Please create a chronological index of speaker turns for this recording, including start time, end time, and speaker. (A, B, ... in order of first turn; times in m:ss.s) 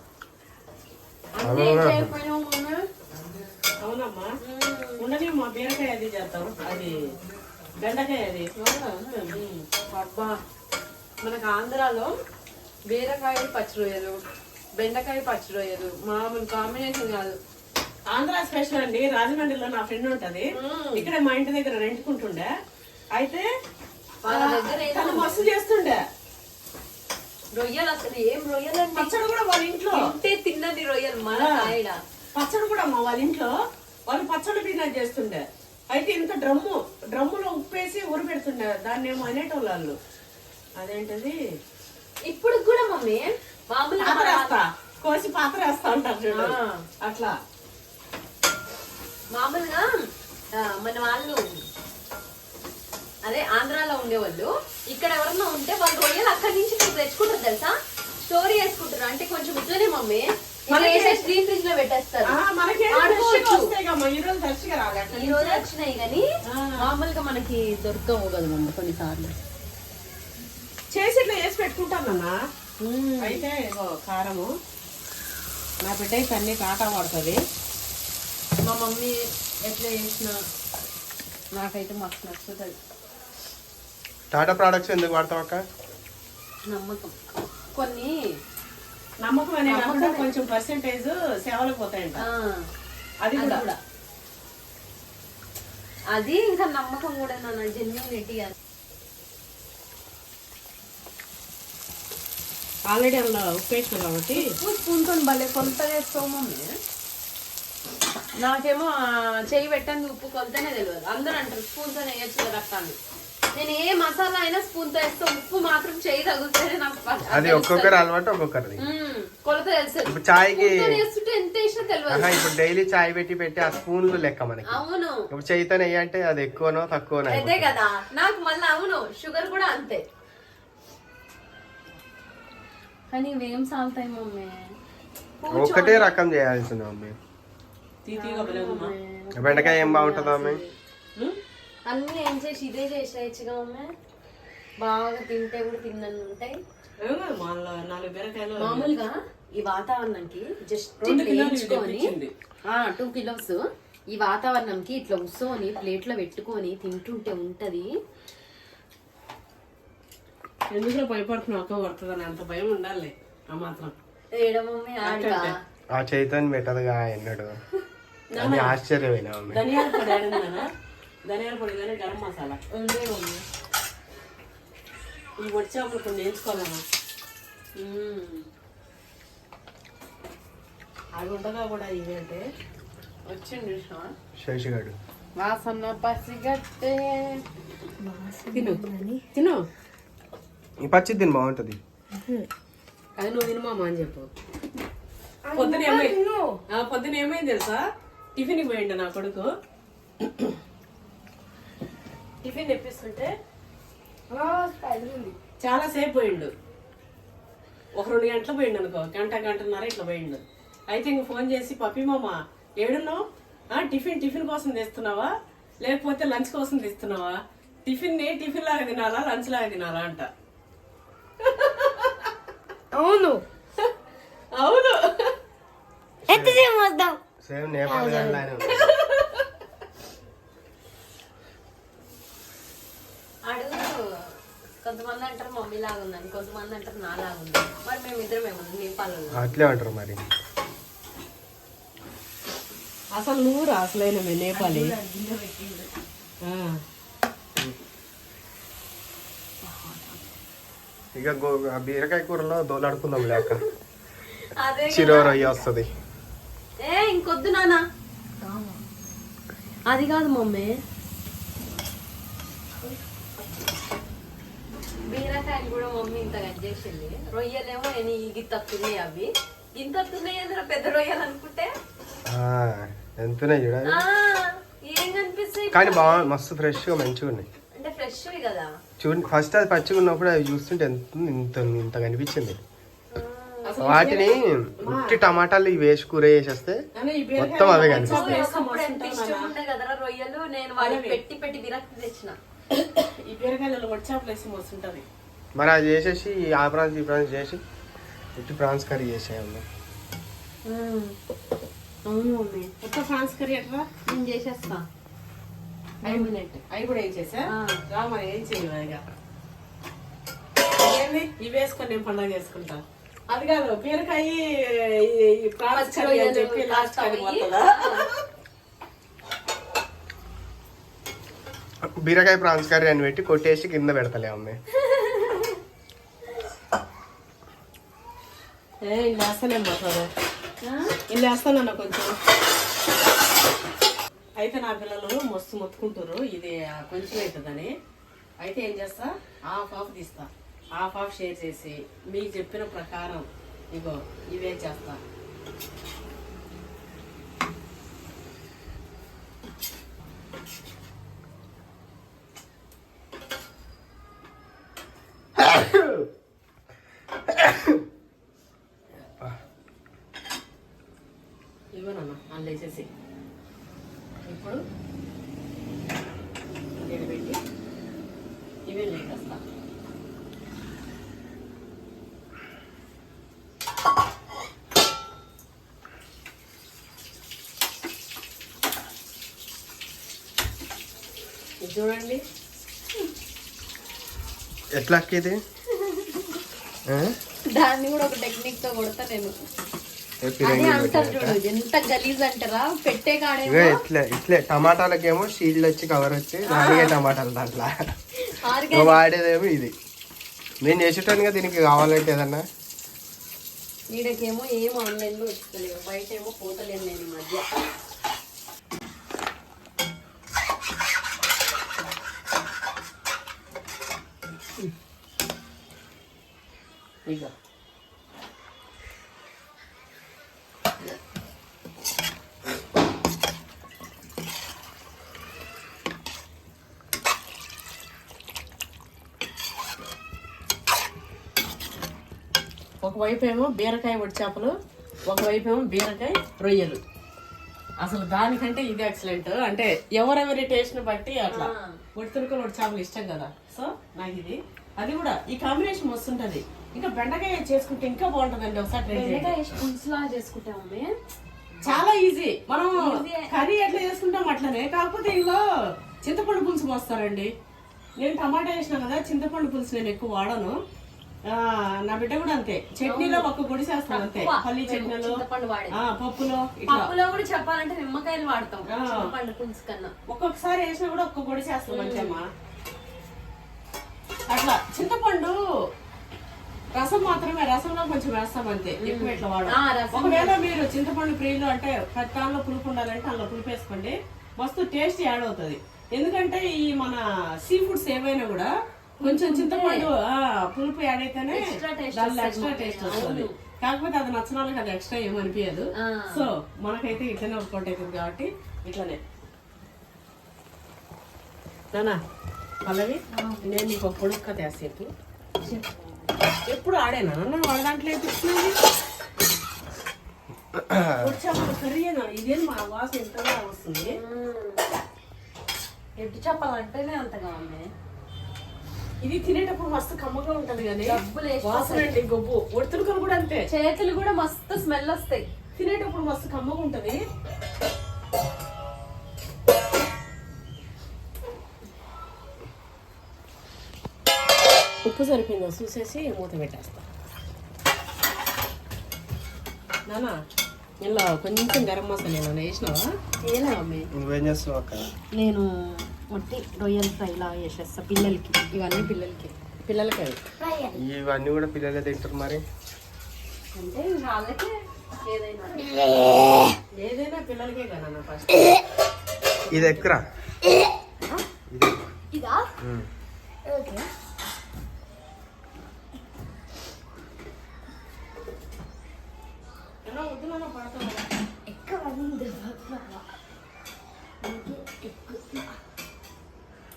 0:01.3-0:02.8 A
0:01.4-0:02.1 B
0:03.8-0:04.3 C
0:04.4-0:05.0 A
0:05.0-0:07.1 C
0:07.8-0:08.5 C
0:08.6-0:09.4 A
0:09.2-0:09.6 C
0:09.9-0:10.4 A
0:11.2-0:12.1 A
0:12.9-0:14.2 A
0:14.8-0:17.4 A
0:18.1-0:22.5 C
0:20.5-0:21.1 A
0:23.1-0:23.5 C
0:24.2-0:25.5 A
0:24.3-0:26.0 C
0:27.5-0:29.2 A
0:28.9-0:30.1 C
0:29.9-0:32.0 A
0:31.3-0:31.7 C
0:32.4-0:33.5 C
0:34.1-0:40.0 C
0:40.8-0:41.4 C
0:42.2-0:44.6 A
0:44.0-0:47.4 C
0:46.3-0:46.8 A
0:49.3-0:51.6 A
0:53.2-1:02.4 A
1:00.7-1:01.3 C
1:02.2-1:05.6 C
1:02.9-1:03.7 A
1:05.1-1:06.2 A
1:06.5-1:06.8 C
1:06.8-1:09.3 A
1:10.9-1:12.4 C
1:12.8-1:13.4 A
1:13.2-1:14.5 C
1:15.8-1:17.4 C
1:18.6-1:20.4 A
1:21.5-1:22.8 A
1:24.3-1:25.6 B
1:26.7-1:27.2 A
1:27.7-1:28.4 A
1:29.2-1:32.2 C
1:29.7-1:30.3 A
1:32.2-1:32.7 A
1:33.2-1:33.6 C
1:33.4-1:33.8 A
1:36.1-1:38.5 A
1:42.9-1:44.5 C
1:44.4-1:46.8 A
1:48.4-1:53.0 A
1:53.5-1:58.0 A
1:57.3-1:58.8 B
1:58.8-2:02.3 A
2:00.1-2:00.9 B
2:02.1-2:07.7 B
2:04.7-2:05.3 A
2:07.3-2:10.0 A
2:13.1-2:14.7 A
2:15.4-2:16.1 A
2:15.5-2:17.2 B
2:18.0-2:18.9 C
2:18.2-2:20.7 A
2:19.4-2:20.6 B
2:21.9-2:23.9 A
2:24.8-2:26.6 A
2:27.0-2:28.9 C
2:28.6-2:32.1 A
2:31.0-2:32.3 C
2:32.7-2:37.9 A
2:40.7-2:43.9 C
2:44.3-2:45.5 A
2:45.0-2:45.5 C
2:45.9-2:47.6 B
2:48.3-2:48.7 C
2:48.4-2:49.6 B
2:49.5-2:50.7 C
2:49.8-2:50.4 A
2:51.2-2:52.6 C
2:52.7-2:53.4 A
2:55.4-2:56.8 C
2:57.8-2:58.4 A
3:01.2-3:02.4 C
3:03.3-3:04.1 A
3:04.4-3:04.9 B
3:05.4-3:07.4 A
3:08.0-3:09.2 A
3:08.5-3:09.6 C
3:10.8-3:11.8 B
3:13.2-3:14.3 C
3:15.5-3:16.6 A
3:15.5-3:16.2 C
3:16.7-3:17.8 C
3:18.4-3:19.5 C
3:20.2-3:20.6 C
3:22.4-3:23.3 C
3:24.3-3:25.3 A
3:25.6-3:26.5 C
3:28.0-3:40.3 C
3:41.4-3:42.3 C
3:43.0-3:43.4 A
3:44.5-3:45.3 C
3:46.3-3:46.7 B
3:46.3-3:47.2 A
3:47.4-3:48.9 B
3:47.9-3:48.4 A
3:53.4-3:54.3 A
3:54.8-3:59.6 A
3:59.3-4:00.2 B
4:03.1-4:04.9 C
4:04.5-4:05.9 A
4:06.4-4:06.8 C
4:09.6-4:10.2 A
4:11.1-4:13.6 B
4:13.4-4:13.6 A
4:14.6-4:15.5 A
4:14.9-4:15.9 B
4:16.8-4:17.8 A
4:18.4-4:18.8 A
4:19.9-4:20.8 A
4:25.1-4:31.7 A
4:32.3-4:34.0 B
4:33.8-4:36.3 A
4:35.7-4:37.5 B
4:37.7-4:38.7 A
4:39.0-4:42.6 B
4:43.1-4:44.0 A
4:43.6-4:45.2 C
4:43.8-4:46.8 B
4:47.0-4:49.5 C
4:47.4-4:48.4 B
4:47.8-4:52.4 A
4:50.8-4:51.2 C
4:52.7-4:55.0 C
4:55.6-4:57.6 B
4:58.4-4:59.6 B
5:00.6-5:01.2 A
5:02.0-5:02.7 A
5:02.8-5:03.9 C
5:04.1-5:04.8 A
5:06.0-5:06.6 A
5:06.0-5:09.0 C
5:07.5-5:07.8 A
5:10.8-5:18.1 C
5:15.7-5:18.1 A
5:22.0-5:24.6 B
5:24.7-5:25.6 A
5:28.8-5:30.1 C
5:30.6-5:30.9 A
5:31.1-5:32.1 C
5:34.4-5:37.7 C
5:38.4-5:45.0 C
5:55.4-5:56.1 B
5:57.2-5:57.8 B
5:59.0-5:59.4 B
6:01.8-6:02.9 C
6:04.3-6:04.6 C
6:06.8-6:07.4 C
6:08.7-6:09.4 C
6:21.6-6:22.2 C
6:24.7-6:25.4 B
6:25.8-6:26.4 A
6:26.9-6:27.2 B
6:27.5-6:29.3 A
6:30.2-6:31.4 B
6:30.4-6:33.8 A
6:33.4-6:37.7 B
6:36.5-6:36.9 A
6:38.2-6:39.0 A
6:38.7-6:39.7 B
6:40.6-6:42.4 B
6:43.9-6:47.4 A
6:57.1-6:57.3 C
7:12.8-7:14.5 C
7:15.1-7:16.8 C
7:17.8-7:29.3 C
7:21.3-7:21.8 A
7:28.9-7:31.0 A
7:31.6-7:35.4 C
7:32.8-7:33.3 A
7:36.0-7:37.3 C
7:38.0-7:40.6 C
7:41.2-7:46.9 C
7:42.8-7:43.3 A
7:43.9-7:45.8 A
7:46.7-7:49.9 A
7:48.7-7:49.1 C
7:50.1-7:52.3 C
7:51.7-7:52.2 A
7:54.3-7:55.4 C
7:56.7-8:19.0 C
7:58.8-8:00.4 A
8:09.0-8:09.9 A
8:11.3-8:13.3 A
8:15.8-8:16.3 A
8:21.7-8:22.0 C
8:22.6-8:24.9 C
8:23.1-8:23.4 A
8:25.4-8:25.7 A
8:26.5-8:28.6 C
8:30.5-8:31.2 B
8:31.0-8:34.0 C
8:33.8-8:34.6 A
8:36.0-8:37.7 A
8:39.0-8:43.5 C
8:40.9-8:41.9 A
8:43.5-8:45.2 A
8:45.6-8:47.0 C
8:54.8-8:56.8 C
8:59.9-9:00.2 C
9:00.8-9:02.9 C
9:03.2-9:03.9 A
9:03.9-9:04.9 B
9:06.0-9:09.3 A
9:06.2-9:08.8 C
9:09.6-9:10.2 C
9:10.4-9:10.8 A
9:10.7-9:12.4 B
9:13.5-9:16.0 A
9:16.8-9:18.6 C
9:19.5-9:19.8 C
9:19.5-9:20.0 B
9:21.5-9:21.9 B
9:22.1-9:22.5 A
9:22.6-9:22.9 B
9:23.4-9:23.8 A
9:29.8-9:31.1 C
9:31.5-9:33.0 A
9:34.2-9:35.5 A